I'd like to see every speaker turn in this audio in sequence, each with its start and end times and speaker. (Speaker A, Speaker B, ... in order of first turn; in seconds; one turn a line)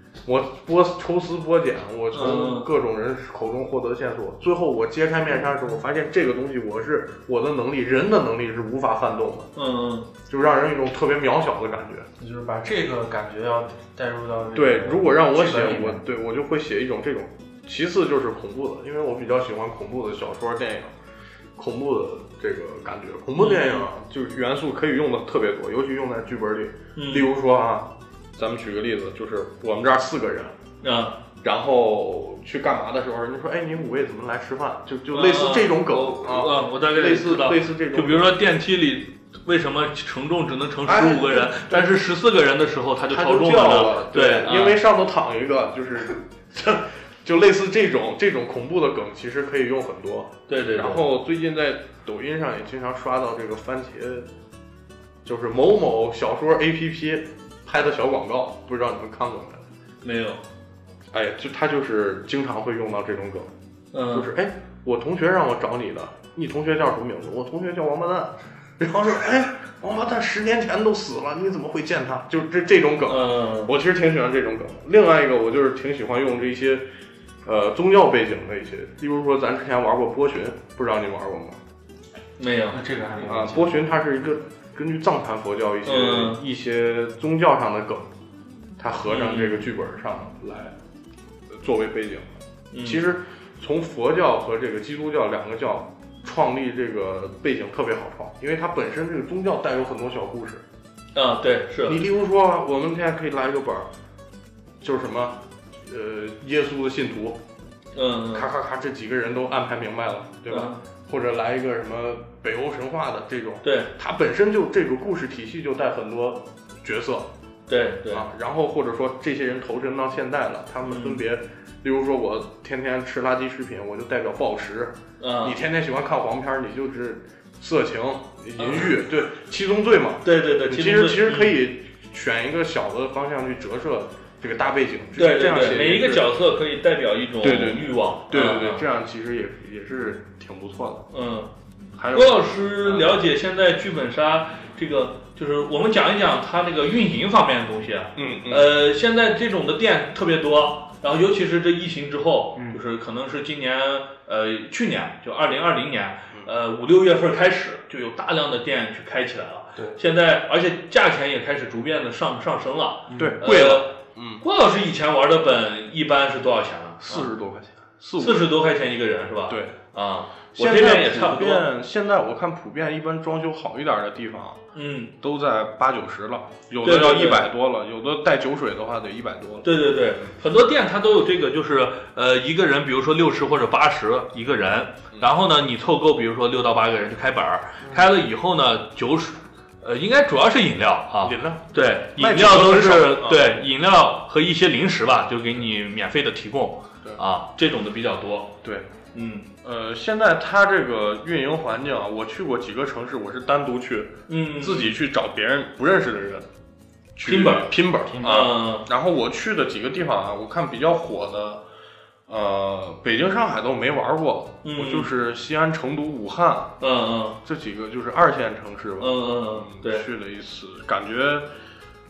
Speaker A: 0.2-9.5
Speaker B: 2.1-2.7
Speaker B: 9.6-10.1
Speaker A: 10.3-12.1
Speaker C: 12.2-16.0
Speaker A: 14.6-20.9
Speaker A: 21.6-30.6
Speaker B: 23.4-23.9
Speaker B: 27.0-27.3
Speaker B: 30.8-31.2
Speaker A: 31.4-38.3
Speaker B: 35.1-44.8
Speaker A: 40.9-42.0
Speaker A: 43.1-54.3
Speaker B: 50.5-51.0
Speaker A: 55.2-59.6
Speaker B: 60.0-60.4
Speaker A: 61.1-63.5
Speaker B: 63.9-64.3
Speaker A: 64.1-76.8
Speaker B: 73.1-73.7
Speaker A: 77.4-81.6
Speaker B: 82.4-82.8
Speaker C: 82.7-83.9
Speaker A: 83.2-88.1
Speaker B: 85.8-86.4
Speaker A: 88.8-90.8
Speaker B: 89.1-89.7
Speaker A: 91.5-100.6
Speaker B: 92.7-93.0
Speaker B: 101.1-102.0
Speaker A: 101.8-103.9
Speaker A: 104.8-107.4
Speaker B: 108.0-108.5
Speaker A: 108.3-117.3
Speaker B: 110.5-110.8
Speaker B: 113.6-113.9
Speaker B: 117.7-118.3
Speaker A: 118.1-136.3
Speaker B: 120.8-121.2
Speaker B: 125.2-125.6
Speaker B: 128.6-128.9
Speaker B: 130.2-131.6
Speaker B: 135.2-138.8
Speaker A: 137.4-141.1
Speaker B: 141.1-141.5
Speaker A: 142.0-143.2
Speaker B: 142.1-167.3
Speaker A: 148.2-148.7
Speaker C: 163.1-163.4
Speaker A: 163.2-164.4
Speaker A: 167.0-168.5
Speaker B: 168.2-171.7
Speaker A: 169.5-169.8
Speaker A: 170.5-174.6
Speaker B: 174.8-175.1
Speaker A: 175.2-179.7
Speaker B: 176.8-177.5
Speaker B: 179.6-198.6
Speaker A: 191.2-193.6
Speaker A: 198.6-198.9
Speaker B: 199.1-199.5
Speaker A: 199.6-206.5
Speaker B: 204.3-205.0
Speaker A: 207.2-211.6
Speaker B: 207.2-208.9
Speaker A: 212.3-216.8
Speaker B: 214.6-215.1
Speaker B: 216.8-217.4
Speaker A: 217.4-221.5
Speaker B: 219.0-220.1